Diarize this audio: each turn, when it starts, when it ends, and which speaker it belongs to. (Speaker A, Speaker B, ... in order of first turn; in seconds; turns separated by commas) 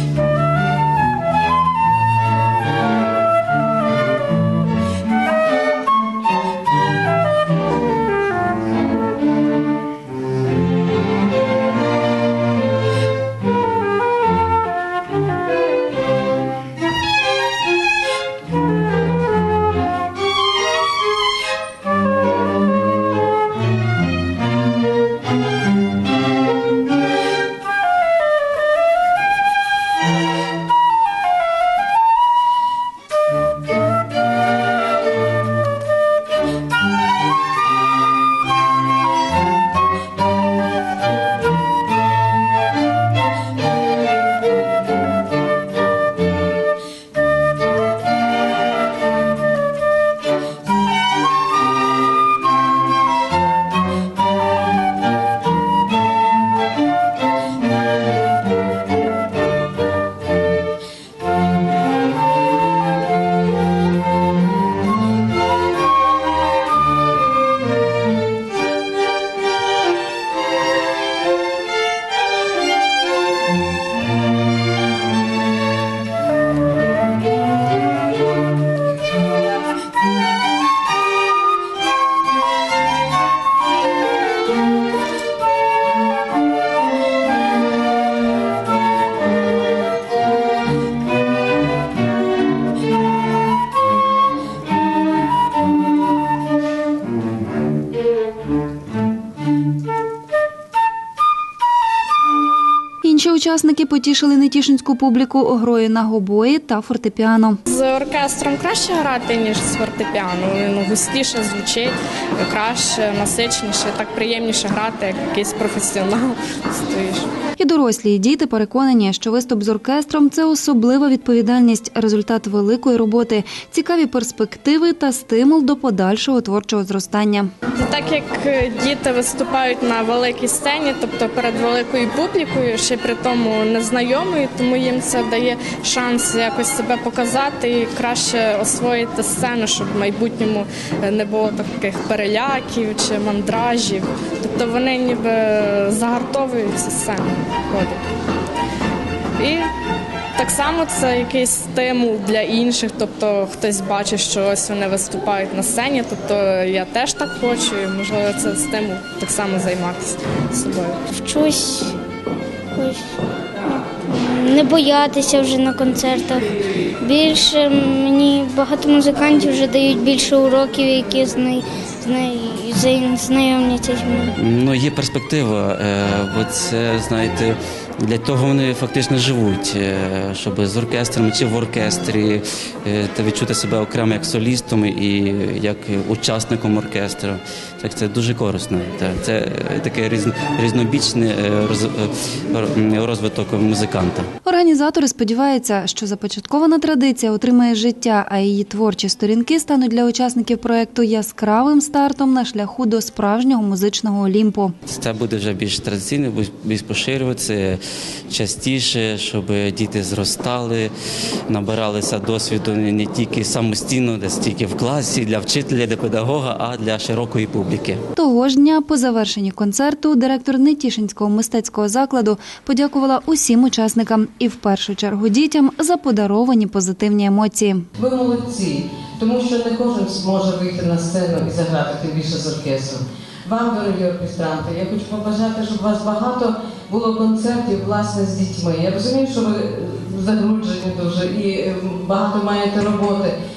Speaker A: 103.0-107.6, Speaker B: 107.7-117.3, Speaker A: 117.6-127.5, Speaker B: 127.7-148.0, Speaker B: 149.4-149.7, Speaker B: 150.3-161.1, Speaker C: 161.1-161.9, Speaker C: 162.7-163.2, Speaker C: 163.7-174.3, Speaker D: 174.3-194.3, Speaker A: 194.4-204.7, Speaker D: 204.8-210.9, Speaker D: 211.5-218.0, Speaker A: 218.2-227.8, Speaker E: 227.9-243.3